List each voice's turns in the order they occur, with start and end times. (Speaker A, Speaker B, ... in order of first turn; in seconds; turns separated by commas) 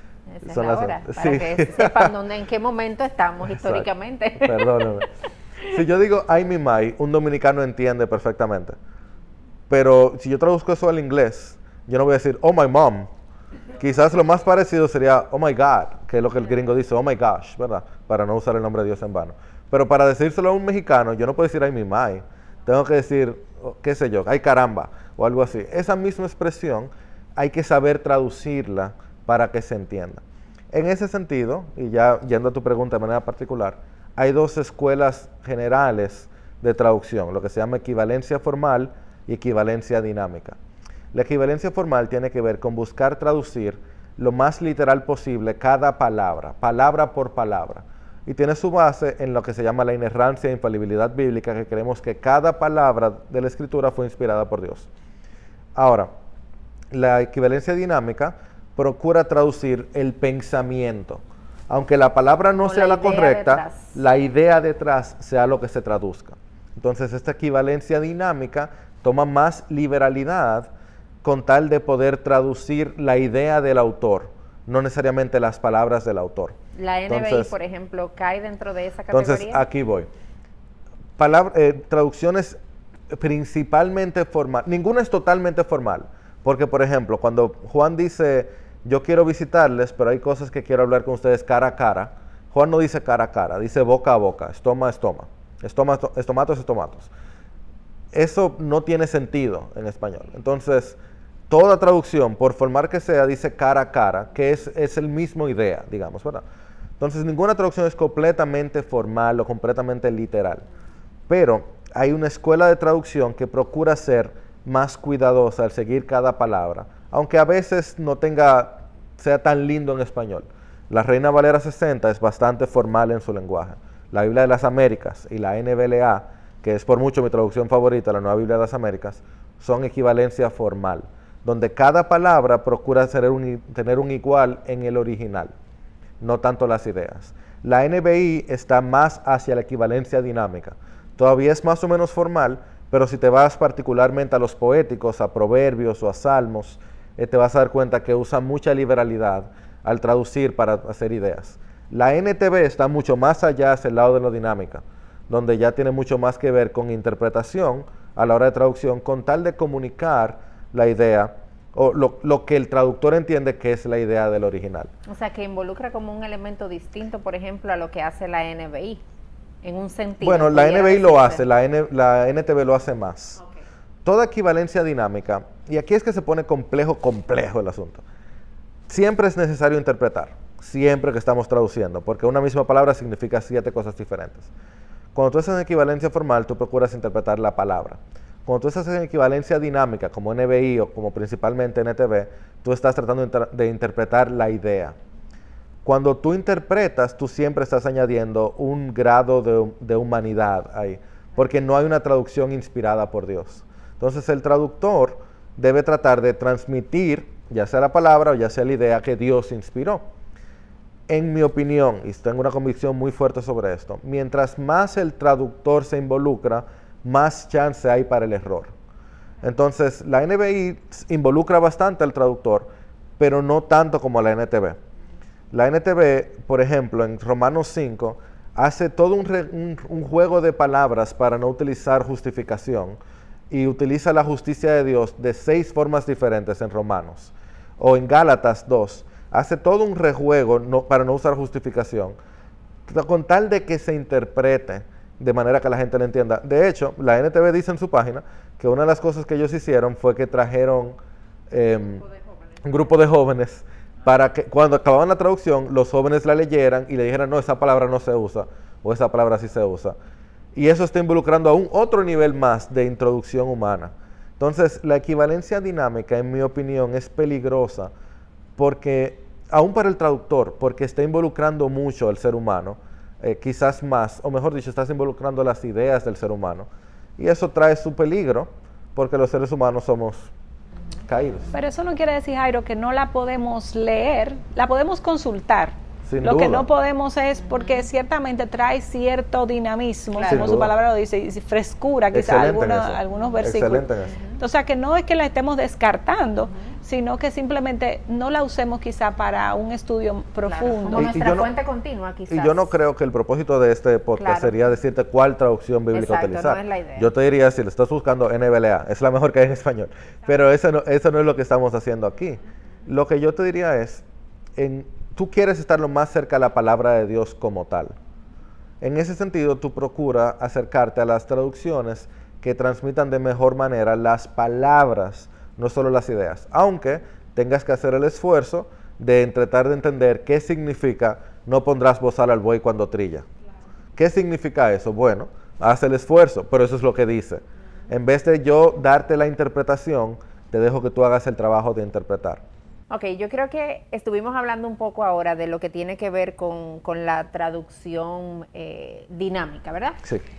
Speaker A: 0.3-4.8, Speaker B: 0.5-2.1, Speaker B: 3.5-5.1, Speaker B: 5.6-8.8, Speaker B: 9.7-13.1, Speaker B: 13.8-40.6, Speaker B: 41.1-54.9, Speaker B: 55.7-56.1, Speaker B: 56.9-70.7, Speaker A: 62.6-63.9, Speaker B: 71.2-76.5, Speaker A: 76.8-79.6, Speaker B: 77.1-77.5, Speaker B: 79.1-80.1, Speaker B: 81.2-82.6, Speaker B: 83.1-97.1, Speaker B: 98.1-101.0, Speaker B: 101.5-106.4, Speaker B: 107.0-110.6, Speaker B: 111.3-135.5, Speaker B: 136.2-164.9, Speaker A: 165.1-169.0, Speaker A: 169.6-171.4, Speaker B: 170.2-173.4, Speaker B: 174.0-178.0, Speaker B: 178.9-184.5, Speaker B: 185.1-194.9, Speaker B: 195.8-210.0, Speaker B: 211.1-218.7, Speaker B: 219.4-224.8, Speaker B: 225.5-233.0, Speaker B: 233.5-242.2, Speaker B: 242.9-251.0, Speaker B: 251.5-252.0, Speaker B: 252.6-259.9, Speaker B: 260.5-267.9, Speaker B: 268.6-280.3, Speaker B: 281.1-281.5, Speaker C: 281.5-301.1, Speaker B: 286.1-286.6, Speaker B: 290.2-290.7, Speaker B: 292.1-294.1, Speaker A: 300.5-302.7, Speaker B: 300.9-301.5, Speaker B: 302.3-314.0, Speaker A: 304.2-304.5, Speaker A: 305.9-307.1, Speaker B: 314.6-317.9, Speaker B: 318.8-333.2, Speaker B: 333.9-342.4, Speaker A: 342.9-350.0